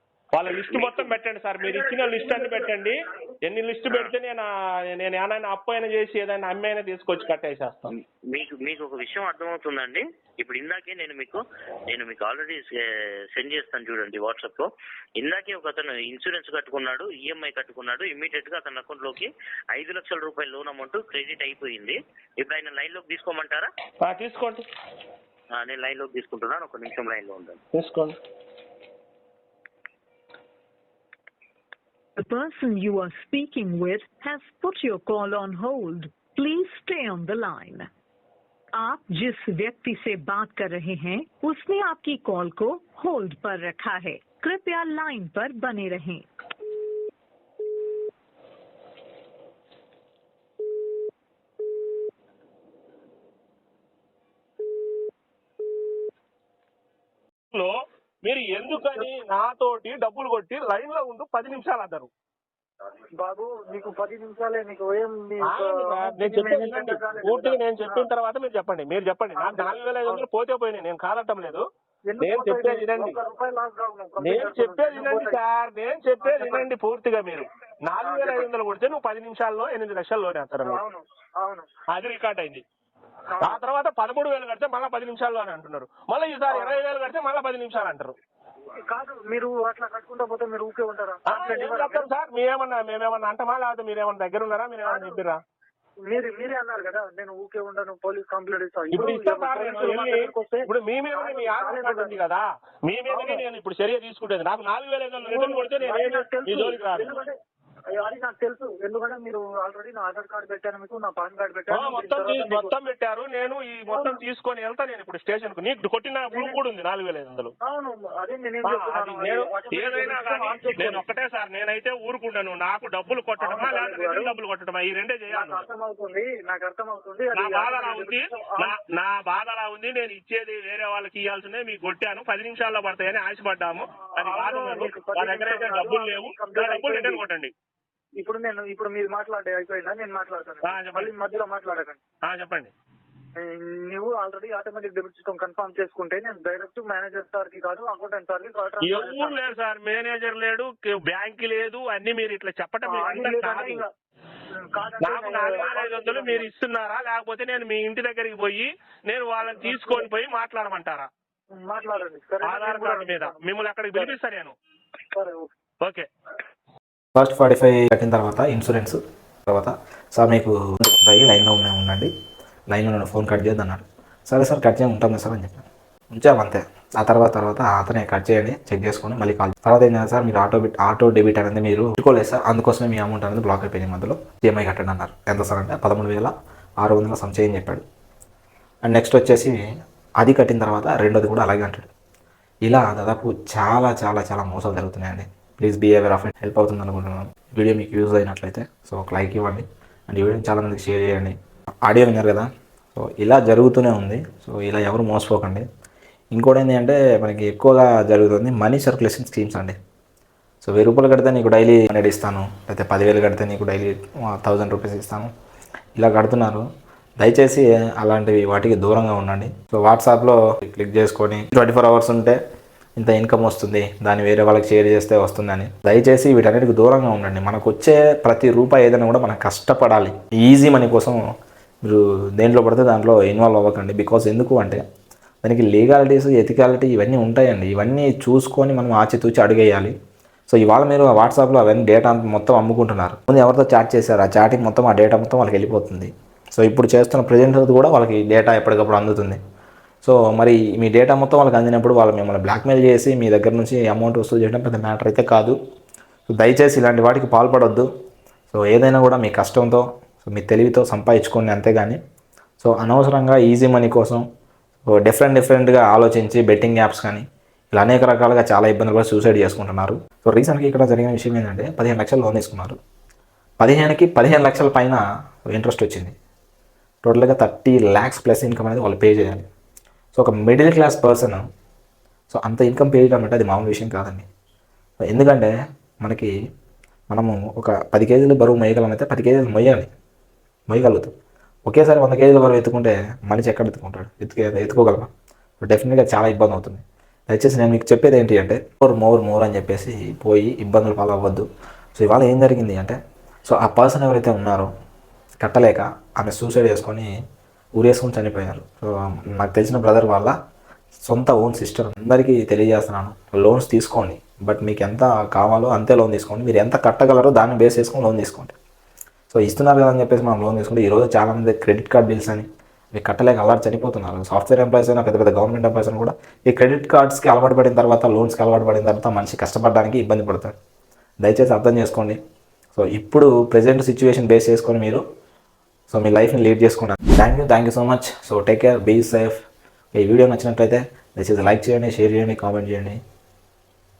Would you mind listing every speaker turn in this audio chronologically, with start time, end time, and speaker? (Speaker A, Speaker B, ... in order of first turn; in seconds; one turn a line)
Speaker A: 0.3-7.9
Speaker B: 0.5-1.1
Speaker B: 8.0-23.7
Speaker A: 24.0-24.6
Speaker B: 25.5-27.6
Speaker A: 27.7-28.2
Speaker C: 32.2-37.9
Speaker C: 38.7-46.3
Speaker A: 57.5-62.1
Speaker D: 63.2-68.1
Speaker A: 65.5-71.6
Speaker D: 69.3-70.2
Speaker D: 72.1-75.4
Speaker A: 72.2-73.2
Speaker A: 74.2-80.8
Speaker D: 76.2-76.7
Speaker D: 78.0-78.5
Speaker D: 80.6-81.7
Speaker A: 81.9-82.6
Speaker D: 83.3-83.6
Speaker A: 83.4-88.2
Speaker D: 86.5-86.8
Speaker D: 88.9-92.1
Speaker A: 91.3-95.4
Speaker D: 94.8-95.2
Speaker D: 96.1-102.2
Speaker A: 98.9-107.1
Speaker D: 103.1-103.4
Speaker D: 105.2-107.3
Speaker D: 108.0-112.7
Speaker A: 111.7-117.5
Speaker D: 113.9-114.2
Speaker D: 116.3-116.6
Speaker D: 117.6-121.0
Speaker A: 118.6-125.7
Speaker D: 123.4-124.3
Speaker D: 125.3-128.7
Speaker A: 127.3-137.5
Speaker D: 134.2-137.2
Speaker D: 138.2-142.0
Speaker A: 140.6-141.1
Speaker A: 142.3-142.7
Speaker D: 143.4-149.4
Speaker A: 148.8-153.8
Speaker D: 152.9-153.9
Speaker D: 154.5-156.5
Speaker A: 155.0-161.1
Speaker D: 159.5-160.1
Speaker D: 161.5-163.4
Speaker A: 162.4-164.6
Speaker D: 165.1-165.5
Speaker A: 165.8-166.1
Speaker E: 167.1-172.1
Speaker E: 172.7-187.8
Speaker E: 188.8-189.6
Speaker E: 190.2-191.9
Speaker E: 192.7-201.3
Speaker E: 201.9-205.6
Speaker E: 206.3-209.8
Speaker E: 210.6-215.3
Speaker E: 216.0-216.7
Speaker E: 217.2-222.4
Speaker E: 223.0-231.2
Speaker E: 231.8-234.8
Speaker E: 235.4-239.9
Speaker E: 240.5-249.4
Speaker E: 250.0-255.6
Speaker E: 256.3-257.9
Speaker E: 258.5-262.0
Speaker E: 262.6-264.2
Speaker E: 264.9-272.8
Speaker E: 273.6-276.1
Speaker E: 277.0-279.5
Speaker E: 280.1-281.4
Speaker E: 282.3-284.3
Speaker E: 285.1-286.3
Speaker E: 287.1-289.9
Speaker E: 290.7-291.1
Speaker E: 291.7-295.1
Speaker E: 295.6-304.7
Speaker E: 305.4-307.1
Speaker E: 307.8-310.4
Speaker E: 311.1-318.5
Speaker E: 319.3-330.5
Speaker E: 331.2-332.2
Speaker E: 332.7-335.0
Speaker E: 335.9-339.4
Speaker E: 339.9-343.0